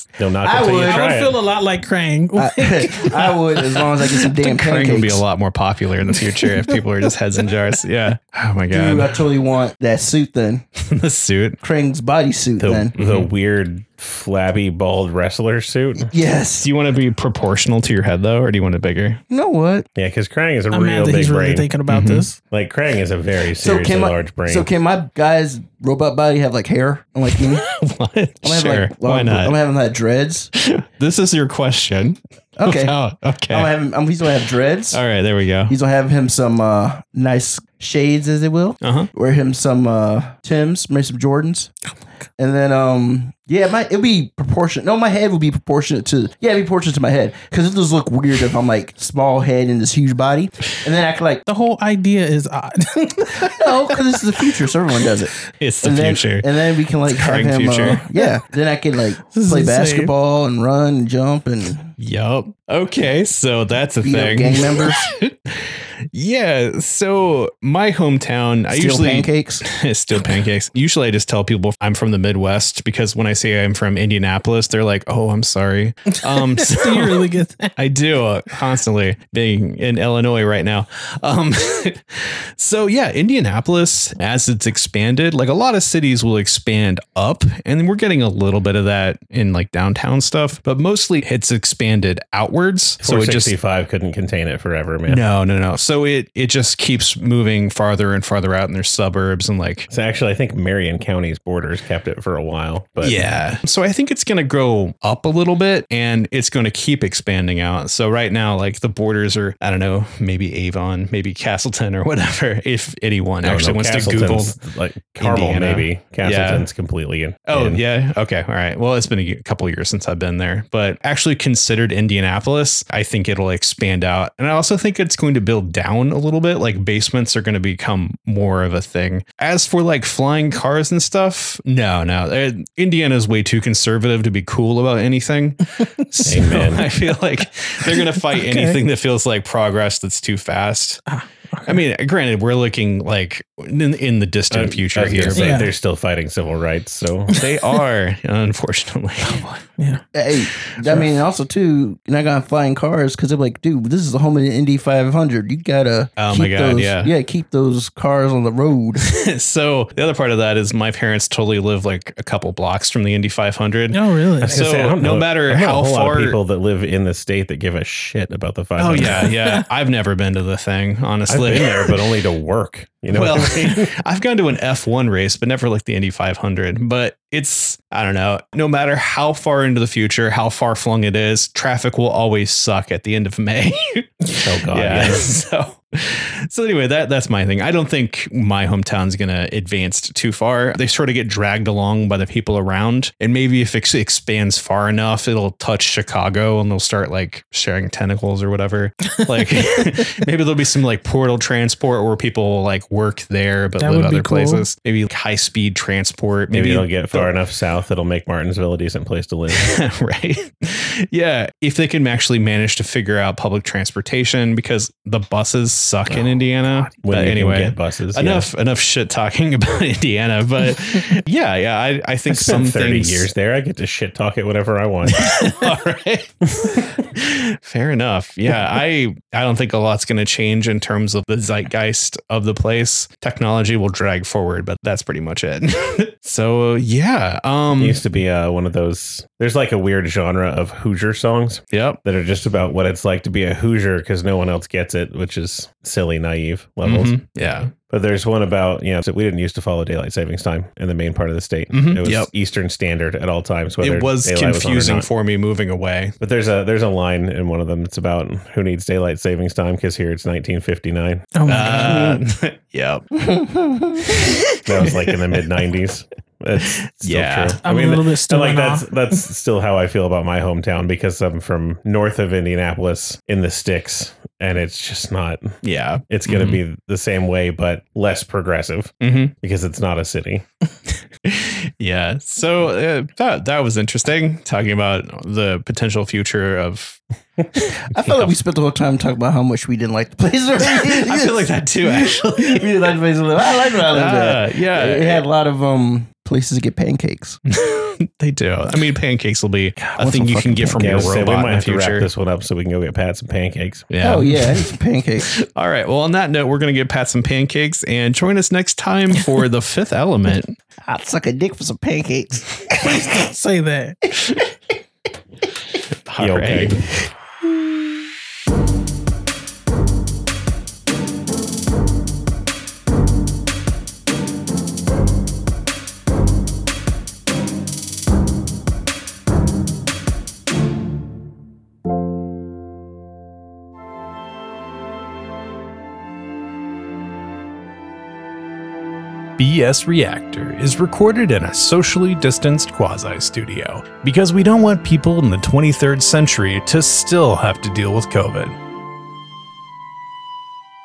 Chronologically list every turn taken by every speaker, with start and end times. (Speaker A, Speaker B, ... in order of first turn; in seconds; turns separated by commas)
Speaker A: 0.2-1.4, Speaker B: 0.4-1.1, Speaker C: 0.8-3.4, Speaker B: 2.4-5.2, Speaker D: 4.4-9.2, Speaker B: 8.7-10.6, Speaker D: 10.9-11.6, Speaker B: 11.6-12.9, Speaker A: 12.6-16.1, Speaker D: 13.0-13.3, Speaker B: 16.0-16.7, Speaker D: 16.6-19.2, Speaker B: 19.3-19.9, Speaker A: 20.0-21.7, Speaker C: 20.7-22.4, Speaker D: 21.9-22.3, Speaker A: 22.4-24.7, Speaker B: 23.6-27.6, Speaker D: 27.4-29.6, Speaker B: 28.4-30.5, Speaker D: 30.6-33.7, Speaker B: 32.6-33.0, Speaker B: 33.5-35.0, Speaker D: 34.9-35.8, Speaker B: 35.7-41.7, Speaker D: 38.8-39.1, Speaker B: 42.4-51.4, Speaker C: 51.5-53.6, Speaker B: 53.4-61.9, Speaker D: 55.6-56.5, Speaker D: 57.1-58.0, Speaker C: 59.3-60.1, Speaker D: 62.0-65.3, Speaker B: 64.0-65.1, Speaker D: 66.1-77.2, Speaker B: 68.7-69.6, Speaker C: 76.7-77.7, Speaker D: 77.8-82.0, Speaker D: 82.6-93.5, Speaker A: 93.0-95.2, Speaker D: 95.1-99.9, Speaker A: 99.9-103.2, Speaker D: 103.0-114.6, Speaker A: 113.4-117.8, Speaker D: 115.2-116.7, Speaker D: 117.5-141.0, Speaker A: 136.3-136.9, Speaker C: 138.3-138.8, Speaker C: 141.1-141.8, Speaker D: 141.7-145.6, Speaker A: 144.5-147.3, Speaker C: 145.3-145.7, Speaker D: 147.4-149.5, Speaker C: 149.3-150.0, Speaker B: 150.1-159.0, Speaker D: 156.2-157.1, Speaker D: 159.1-166.4, Speaker C: 163.9-164.7, Speaker A: 164.4-169.2, Speaker D: 168.8-171.9, Speaker C: 169.0-169.7, Speaker A: 171.3-173.9, Speaker D: 173.1-207.3, Speaker A: 184.4-185.3, Speaker C: 203.8-204.7, Speaker A: 206.5-209.8, Speaker D: 209.5-223.3, Speaker A: 216.1-218.5, Speaker A: 222.3-225.4, Speaker D: 225.2-238.0, Speaker A: 237.8-247.2, Speaker D: 241.7-242.0, Speaker D: 246.8-247.7, Speaker A: 247.8-255.1, Speaker D: 251.7-252.3, Speaker D: 253.8-256.1, Speaker A: 256.2-261.3, Speaker C: 261.3-262.2, Speaker D: 261.5-263.1, Speaker B: 263.2-264.1, Speaker D: 264.1-265.5, Speaker A: 264.6-275.5, Speaker D: 267.0-267.6, Speaker C: 267.6-269.2, Speaker D: 275.6-276.6, Speaker A: 276.1-280.4, Speaker D: 279.0-279.3, Speaker D: 281.2-288.4, Speaker B: 287.9-297.4, Speaker D: 290.6-292.7, Speaker D: 293.4-295.2, Speaker D: 297.5-302.1, Speaker B: 299.9-301.1, Speaker A: 300.8-303.9, Speaker D: 303.9-304.7, Speaker B: 304.0-305.3, Speaker D: 305.3-310.6, Speaker B: 310.8-313.1, Speaker C: 313.0-314.0, Speaker D: 316.1-316.8, Speaker A: 316.2-317.0, Speaker D: 339.4-348.6